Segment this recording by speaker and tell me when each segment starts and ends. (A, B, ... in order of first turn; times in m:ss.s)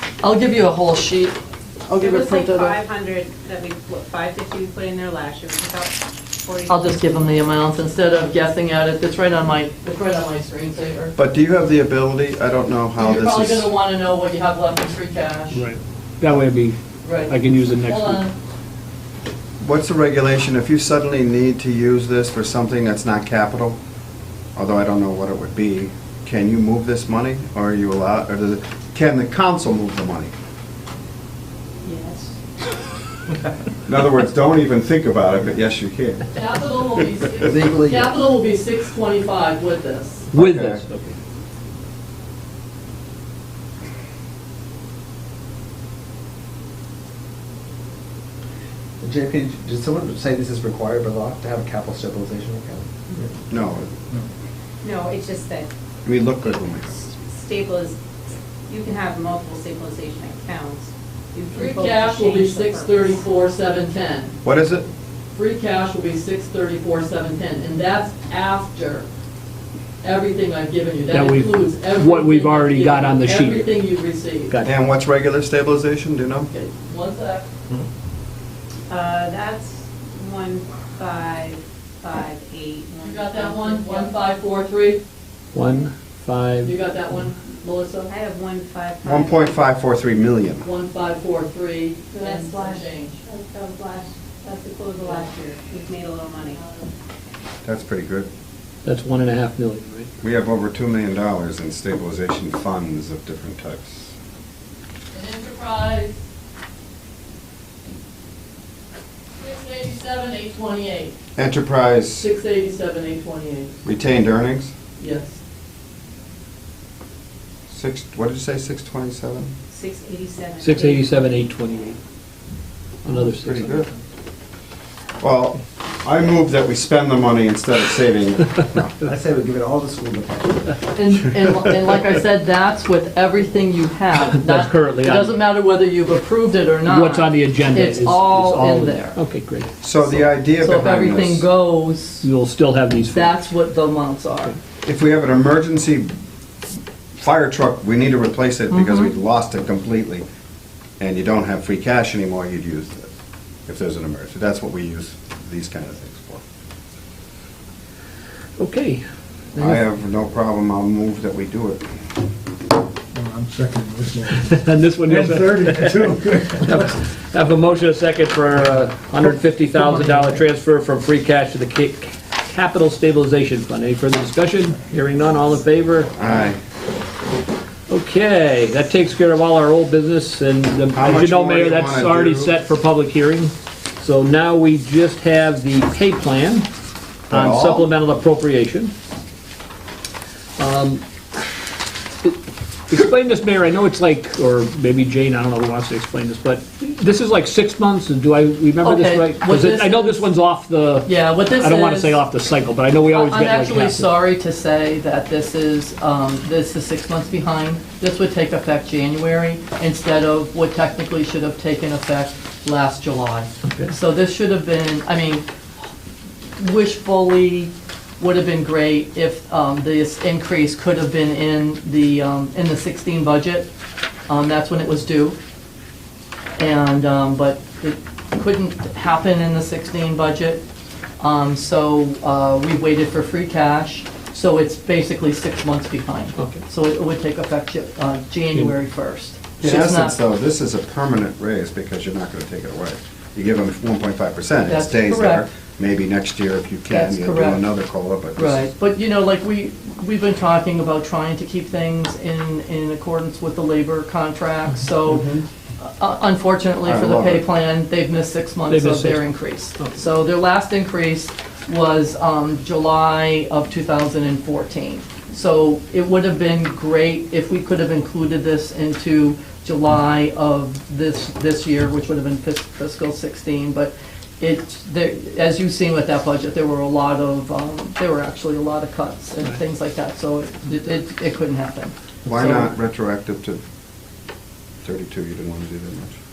0:00.2-0:02.8 A
0:02.0-0:07.3 B
0:06.7-0:11.1 A
0:11.2-0:13.7 C
0:13.0-0:15.6 A
0:15.5-0:18.2 D
0:17.0-0:18.3 A
0:19.6-0:23.8 C
0:24.5-0:30.3 C
0:31.8-0:32.4 B
0:33.8-0:37.5 C
0:36.3-0:40.3 A
0:37.4-0:38.2 E
0:40.3-0:41.2 D
0:40.3-0:40.8 C
0:49.0-0:53.5 E
0:53.5-0:53.9 C
0:54.8-0:55.7 B
0:56.0-0:57.1 C
0:57.0-0:58.0 B
0:58.7-1:03.2 B
1:01.5-1:04.4 A
1:04.4-1:04.9 C
1:05.3-1:09.1 A
1:10.0-1:14.6 A
1:11.1-1:13.8 D
1:14.6-1:16.5 C
1:16.5-1:17.5 A
1:18.9-1:24.1 B
1:23.0-1:25.0 A
1:25.5-1:26.7 D
1:26.6-1:28.1 A
1:28.1-1:29.6 B
1:29.0-1:30.6 C
1:30.6-1:33.2 A
1:32.1-1:36.6 B
1:35.0-1:35.5 A
1:36.5-1:36.9 A
1:37.6-1:38.3 C
1:38.8-1:40.1 D
1:40.2-1:44.1 C
1:45.1-1:46.2 A
1:49.4-1:51.1 A
1:51.4-1:52.3 C
1:52.2-1:53.8 A
1:53.8-1:54.7 C
1:55.0-1:55.4 A
1:57.7-1:59.5 C
1:59.7-2:01.4 B
2:00.6-2:02.0 D
2:03.0-2:03.9 D
2:03.2-2:03.9 C
2:05.2-2:09.0 C
2:09.0-2:10.8 E
2:10.9-2:19.2 A
2:14.2-2:15.4 D
2:16.8-2:19.7 D
2:19.8-2:21.4 C
2:20.0-2:22.3 A
2:22.2-2:23.4 D
2:23.1-2:24.6 A
2:24.8-2:26.1 C
2:27.2-2:30.2 C
2:28.7-2:29.1 A
2:31.0-2:33.1 C
2:33.7-2:36.4 C
2:38.6-2:39.0 D
2:39.5-2:39.8 D
2:39.6-2:41.8 C
2:43.1-2:46.9 F
2:44.4-2:56.5 D
2:49.7-2:50.4 A
2:56.2-2:56.6 C
2:57.9-3:06.7 D
3:00.9-3:02.5 C
3:07.3-3:07.9 C
3:07.3-3:08.9 D
3:10.6-3:11.5 D
3:12.9-3:24.1 D
3:18.8-3:20.2 A
3:21.0-3:22.2 A
3:23.1-3:35.4 A
3:36.6-3:43.7 A
3:44.3-3:45.4 A
3:46.6-3:50.6 A
3:51.2-4:00.2 A
3:59.6-4:08.7 C
4:04.7-4:05.4 A
4:06.9-4:07.6 A
4:08.4-4:42.7 A
4:15.1-4:15.4 C
4:16.8-4:17.4 C
4:18.7-4:19.2 D
4:42.2-4:43.6 C
4:44.8-4:46.2 C